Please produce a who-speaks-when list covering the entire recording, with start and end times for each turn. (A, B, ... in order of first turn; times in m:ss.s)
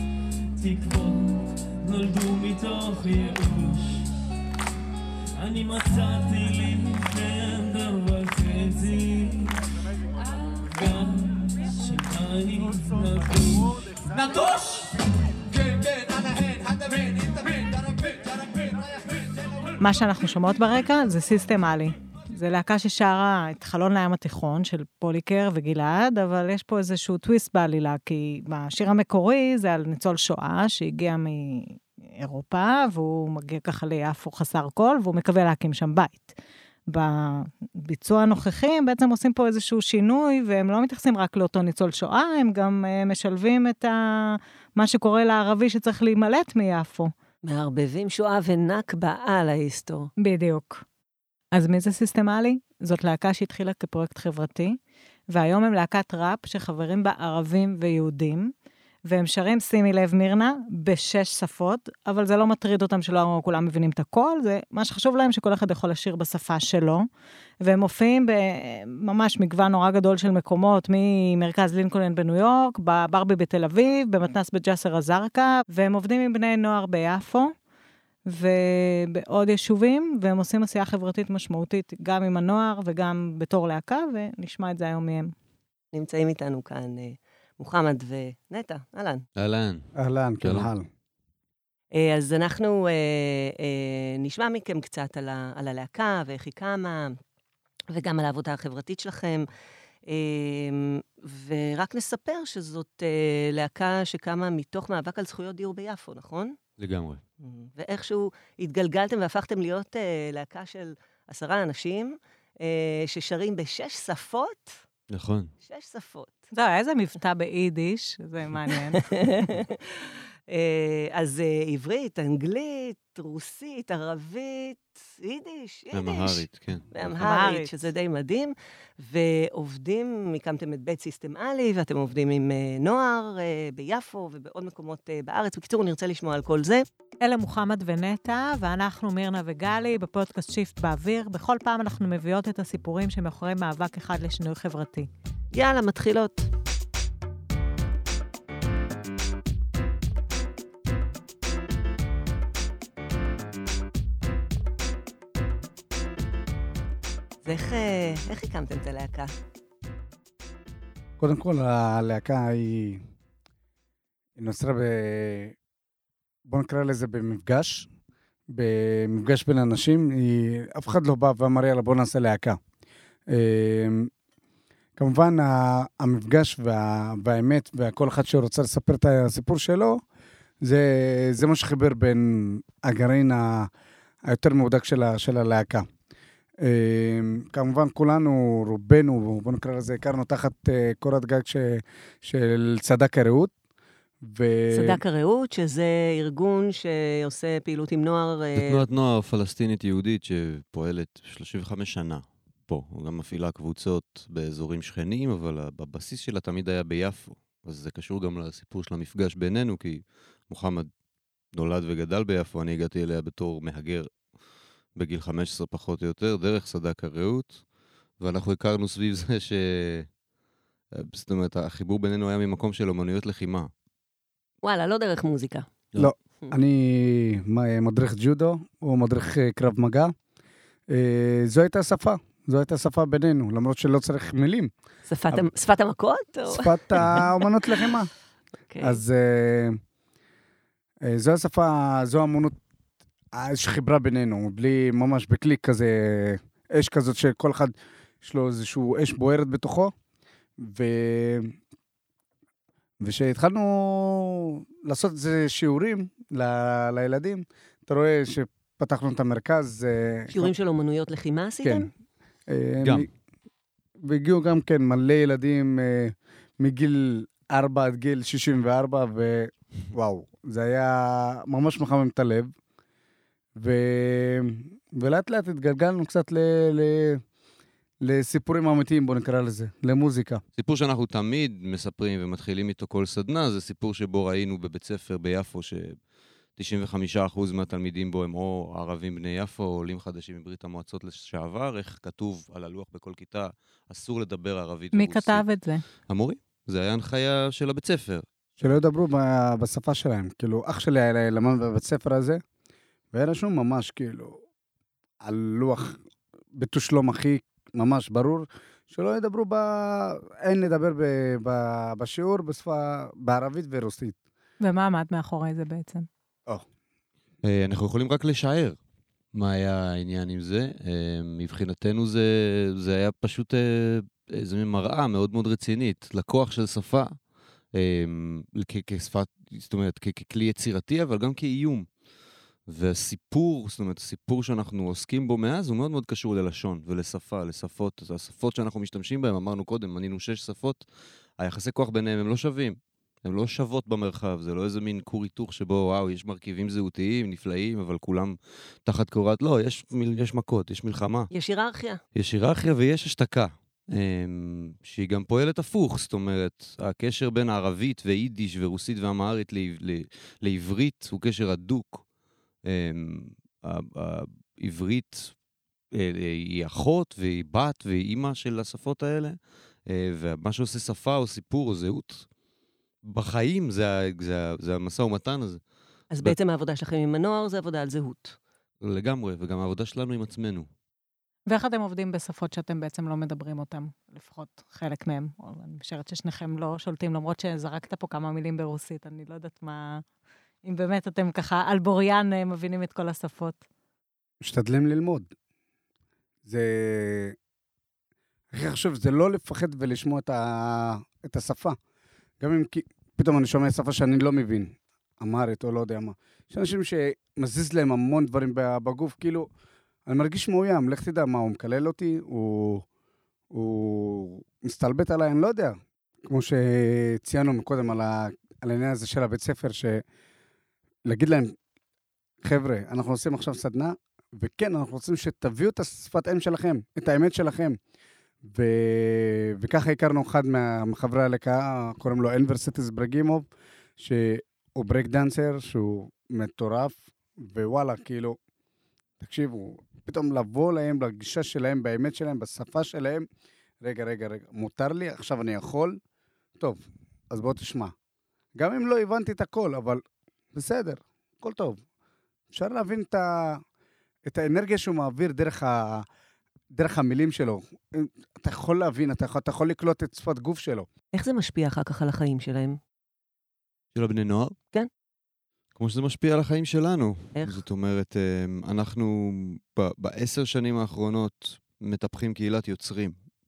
0:00.6-0:04.1 A
0:05.4-0:09.6 A
0:10.7-0:14.7 A
0:19.8-0:36.3 B
0:36.9-0:47.1 B
0:47.5-0:50.1 C
0:50.2-0:50.8 B
0:51.5-0:54.8 B
0:55.3-0:58.5 B
0:59.1-1:07.1 B
1:07.6-1:17.5 B
1:18.3-1:25.3 B
1:25.9-1:29.2 C
1:29.4-1:29.9 D
1:30.0-1:30.9 E
1:30.4-1:30.7 D
1:31.9-1:37.2 C
1:37.9-1:39.5 C
1:40.1-1:46.6 C
1:46.8-1:47.2 D
1:47.4-1:54.8 C
1:55.1-1:55.5 D
1:55.6-1:56.5 C
1:56.5-1:59.0 B
1:58.7-2:16.8 C
2:05.9-2:07.2 D
2:07.2-2:07.7 B
2:17.2-2:25.1 B
2:25.5-2:26.5 C
2:37.4-2:39.3 C
2:41.2-2:43.0 E
2:44.4-2:45.6 E
2:46.5-2:47.9 E
2:48.5-2:52.6 E
2:53.3-2:54.1 E
2:55.0-3:00.0 E
3:00.6-3:03.7 E
3:04.3-3:05.9 E
3:06.6-3:13.5 E
3:14.2-3:15.0 E
3:14.7-3:18.8 C
3:18.6-3:30.9 D
3:31.5-3:34.1 D
3:35.0-3:37.6 D
3:38.2-3:40.1 D
3:40.9-3:43.7 D
3:44.6-3:45.7 C
3:46.0-3:50.1 E
3:50.9-3:54.7 E
3:55.1-3:57.3 C
3:56.5-3:58.1 E
3:58.7-3:59.0 C
3:58.8-3:59.8 E
4:01.0-4:02.6 E
4:03.4-4:09.9 E
4:10.6-4:11.5 E
4:13.0-4:20.5 E
4:20.3-4:21.9 C
4:21.6-4:21.9 E
4:22.5-4:23.1 E
4:24.0-4:32.5 E
4:33.6-4:37.2 E
4:38.0-4:40.4 E
4:40.6-4:46.0 D
4:46.6-4:55.4 D
4:54.9-4:55.8 B
4:56.1-4:58.2 D
4:58.6-5:02.4 E
5:03.1-5:04.4 E
5:05.2-5:06.0 E
5:06.6-5:14.2 E
5:14.6-5:16.1 B
5:17.4-5:18.8 D
5:19.3-5:27.1 D
5:27.8-5:31.9 D
5:32.7-5:40.8 D
5:41.4-5:51.3 D
5:51.3-5:52.0 C
5:52.2-6:02.0 D
6:02.7-6:05.3 D
6:05.9-6:12.3 D
6:13.0-6:15.6 D
6:16.1-6:18.4 C
6:18.8-6:20.7 D
6:21.5-6:30.0 B
6:30.6-6:33.6 B
6:34.4-6:35.3 E
6:36.4-6:37.4 E
6:38.5-6:41.8 E
6:42.4-6:49.5 E
6:50.1-6:52.8 E
6:53.5-7:00.0 E
7:01.1-7:01.5 E
7:02.4-7:07.8 E
7:08.4-7:13.5 E
7:14.0-7:18.4 E
7:19.2-7:23.2 E
7:23.8-7:26.0 E
7:26.6-7:27.9 E
7:28.6-7:30.0 E
7:30.5-7:31.8 E
7:32.5-7:33.6 E
7:34.3-7:36.0 E
7:36.7-7:40.9 E
7:41.1-7:42.8 C
7:44.0-7:44.6 D
7:45.8-7:53.2 D